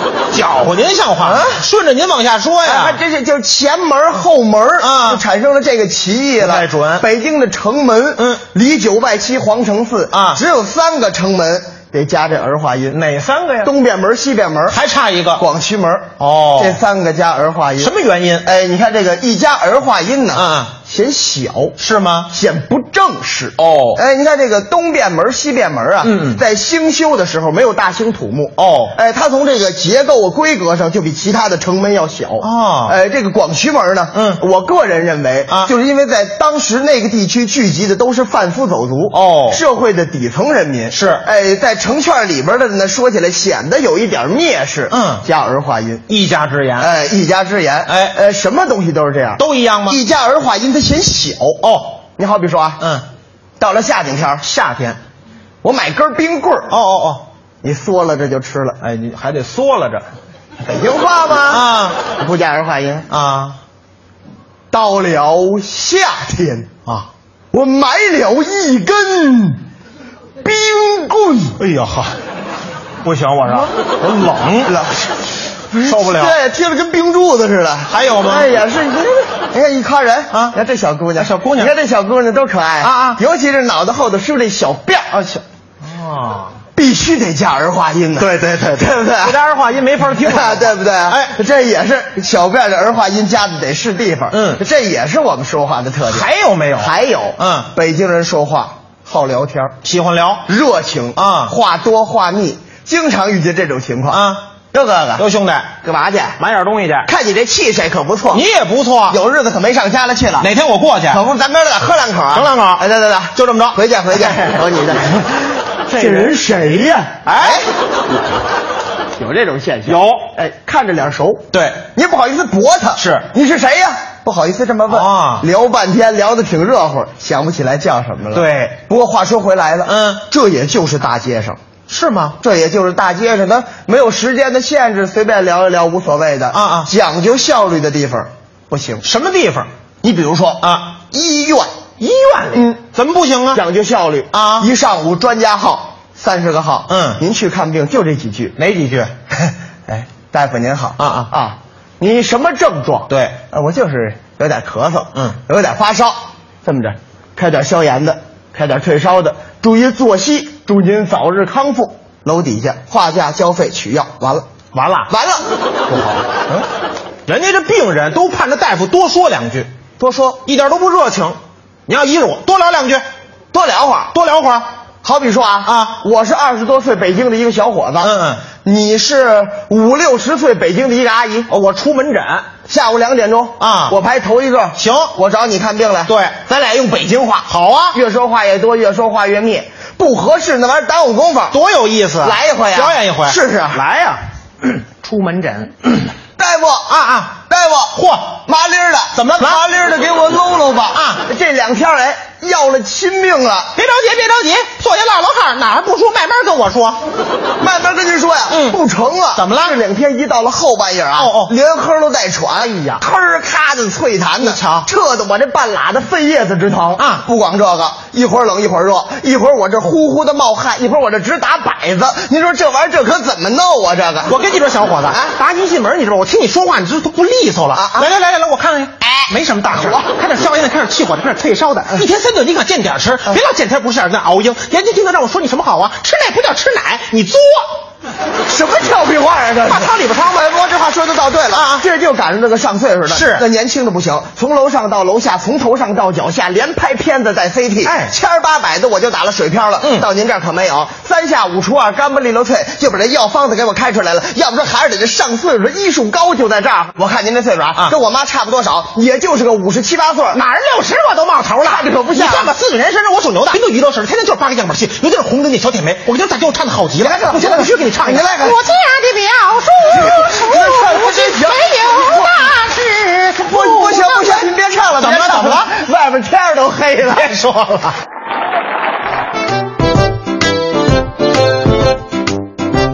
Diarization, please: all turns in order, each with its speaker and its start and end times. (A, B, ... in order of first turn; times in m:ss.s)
0:00.3-0:03.0 A
0:01.2-0:01.6 B
0:02.6-0:13.0 B
0:04.8-0:05.2 A
0:06.4-0:07.0 A
0:08.2-0:08.4 A
0:10.1-0:10.4 A
0:12.9-0:13.7 A
0:13.6-0:14.8 B
0:14.7-0:15.4 A
0:15.4-0:21.8 B
0:16.2-0:16.8 A
0:17.8-0:18.5 A
0:20.3-0:20.8 A
0:21.8-0:22.3 A
0:22.3-0:46.0 B
0:23.6-0:24.0 A
0:26.0-0:26.4 A
0:28.6-0:29.0 A
0:32.4-0:33.0 A
0:34.1-0:34.4 A
0:39.1-0:39.6 A
0:40.9-0:41.2 A
0:44.9-0:45.2 A
0:46.1-0:46.9 A
0:46.8-0:51.6 B
0:47.9-0:48.2 A
0:49.4-0:50.0 A
0:51.6-0:52.0 A
0:52.2-0:52.8 B
0:52.8-0:53.0 A
0:53.6-0:54.4 B
0:54.4-0:55.0 A
0:55.6-0:56.8 B
0:56.7-0:57.2 A
0:57.6-0:58.8 B
0:58.8-1:00.1 A
1:00.6-1:03.1 B
1:01.5-1:02.0 A
1:03.1-1:03.6 A
1:04.7-1:06.7 B
1:07.5-1:09.6 B
1:10.4-1:11.6 B
1:11.6-1:12.2 A
1:13.0-1:14.8 A
1:14.6-1:15.1 B
1:15.7-1:16.4 A
1:15.7-1:25.2 B
1:17.9-1:18.5 A
1:20.3-1:20.6 A
1:21.2-1:21.7 A
1:22.8-1:23.2 A
1:25.1-1:26.6 A
1:26.8-1:29.4 B
1:28.2-1:31.3 A
1:30.0-1:39.8 B
1:34.3-1:34.6 A
1:36.0-1:37.7 A
1:39.8-1:40.4 A
1:40.4-1:45.2 B
1:41.2-1:41.5 A
1:44.1-1:44.4 A
1:45.2-1:45.7 A
1:45.8-1:46.4 B
1:46.4-1:47.1 A
1:47.1-1:48.4 B
1:48.3-1:49.2 A
1:49.1-1:50.5 B
1:50.4-1:51.2 A
1:51.1-1:57.7 B
1:52.3-1:52.8 A
1:53.4-1:54.6 A
1:55.9-1:57.6 A
1:59.2-2:11.6 B
1:59.9-2:00.3 A
2:01.5-2:01.8 A
2:03.0-2:03.3 A
2:04.9-2:05.5 A
2:08.3-2:08.8 A
2:09.8-2:10.2 A
2:11.9-2:12.4 A
2:12.4-2:19.0 B
2:16.5-2:16.9 A
2:19.0-2:19.7 A
2:20.0-2:21.7 B
2:20.6-2:20.9 A
2:22.0-2:23.6 A
2:22.5-2:22.8 B
2:23.5-2:28.6 B
2:24.3-2:24.7 A
2:26.9-2:27.2 A
2:28.6-2:29.1 A
2:29.9-2:44.5 B
2:31.0-2:31.3 A
2:33.1-2:33.4 A
2:44.7-2:45.1 A
2:45.1-2:45.4 B
2:45.9-2:46.6 A
2:47.3-2:49.7 A
2:50.0-2:50.4 B
2:50.4-2:53.0 A
2:53.5-2:54.1 B
2:54.1-2:54.7 A
2:55.0-3:01.5 B
2:55.6-2:56.0 A
2:58.0-2:58.4 A
3:01.5-3:02.5 A
3:02.7-3:11.6 B
3:03.6-3:04.0 A
3:04.8-3:05.1 A
3:06.1-3:06.4 A
3:07.5-3:08.0 A
3:11.5-3:16.1 A
3:12.2-3:13.8 B
3:16.4-3:16.9 B
3:16.9-3:17.4 A
3:17.5-3:23.8 B
3:18.0-3:18.4 A
3:19.2-3:19.7 A
3:20.9-3:21.2 A
3:23.8-3:27.0 A
3:27.6-3:44.4 B
3:28.5-3:28.8 A
3:29.4-3:29.8 A
3:31.2-3:31.5 A
3:34.4-3:34.9 A
3:37.0-3:37.2 A
3:44.3-3:57.7 A
3:45.1-3:45.3 B
3:47.7-3:48.1 B
3:49.0-3:50.1 B
3:58.5-4:20.4 B
3:59.7-4:00.5 A
4:01.5-4:01.9 A
4:03.1-4:03.4 A
4:07.8-4:08.1 A
4:09.8-4:10.1 A
4:20.3-4:35.7 A
4:21.6-4:22.5 B
4:27.0-4:28.6 B
4:29.9-4:32.5 B
4:33.4-4:37.3 B
4:37.1-4:38.0 A